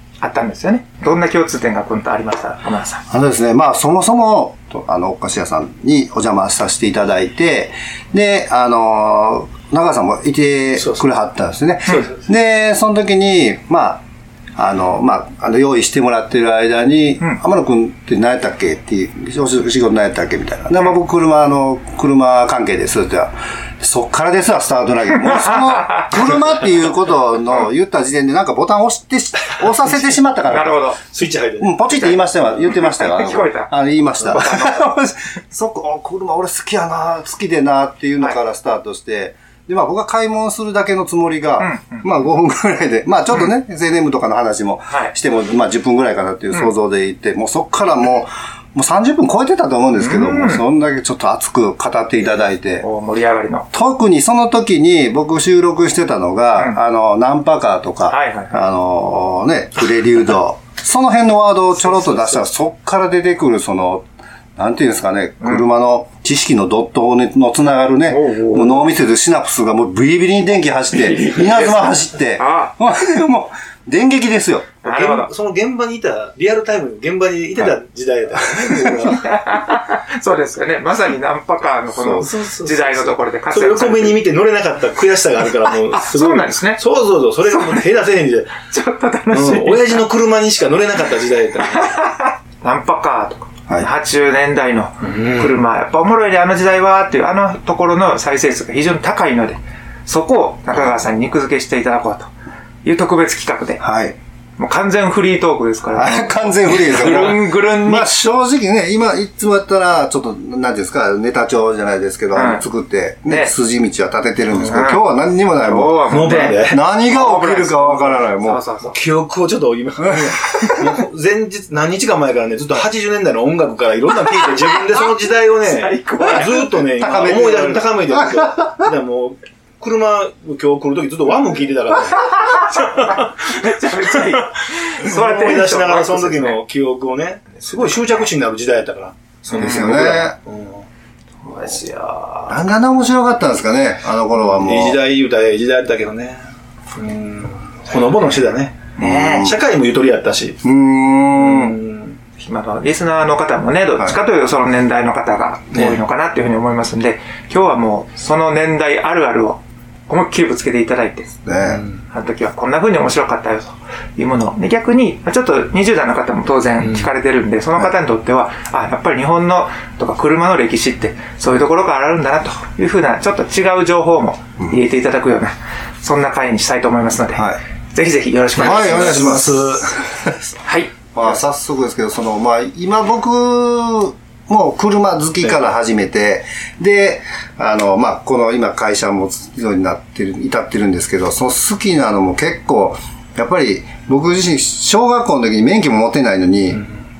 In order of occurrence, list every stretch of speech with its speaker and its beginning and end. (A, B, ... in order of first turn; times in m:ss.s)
0:00.2-0:03.0 A
0:03.1-0:14.0 B
0:10.8-0:11.0 C
0:14.6-0:30.8 B
0:25.2-0:26.1 A
0:30.4-0:31.0 A
0:31.1-0:32.1 C
0:31.6-0:52.8 B
0:31.9-0:34.9 A
0:41.6-0:42.2 A
0:50.0-0:50.6 A
0:52.8-0:53.7 A
0:53.7-1:04.0 B
0:58.1-0:58.6 A
1:01.8-1:02.3 A
1:04.6-1:14.7 B
1:05.4-1:05.7 A
1:08.1-1:08.9 A
1:10.9-1:12.7 A
1:14.8-1:15.3 A
1:14.8-1:19.3 C
1:19.1-1:24.2 A
1:21.9-1:22.3 B
1:22.2-1:28.5 C
1:25.7-1:26.8 A
1:27.5-1:27.8 A
1:28.7-1:30.1 A
1:29.3-1:32.0 C
1:31.6-1:42.3 A
1:35.0-1:35.6 C
1:42.8-1:43.8 A
1:43.8-1:44.2 B
1:44.6-1:48.2 A
1:45.9-1:58.6 B
1:52.3-1:52.6 A
1:53.2-1:53.5 A
1:54.5-1:54.9 C
1:54.7-1:59.0 A
1:56.1-1:56.8 C
1:58.8-2:20.8 C
2:00.1-2:00.8 B
2:05.6-2:06.8 A
2:06.2-2:08.9 B
2:12.3-2:16.6 A
2:17.6-2:18.2 A
2:19.4-2:20.3 A
2:19.5-2:20.3 B
2:21.4-2:22.6 A
2:22.5-2:25.0 B
2:24.5-2:26.4 C
2:26.9-2:30.6 C
2:29.0-2:29.5 A
2:29.0-2:29.6 B
2:30.6-2:31.8 B
2:31.4-2:32.2 C
2:32.4-2:41.4 A
2:35.7-2:36.0 C
2:41.4-2:41.8 B
2:41.6-2:42.0 C
2:42.1-2:59.4 A
2:46.8-2:47.1 C
2:57.3-2:57.6 B
2:58.6-3:00.0 C
2:58.6-3:00.3 B
3:00.6-3:01.3 A
3:01.1-3:16.8 B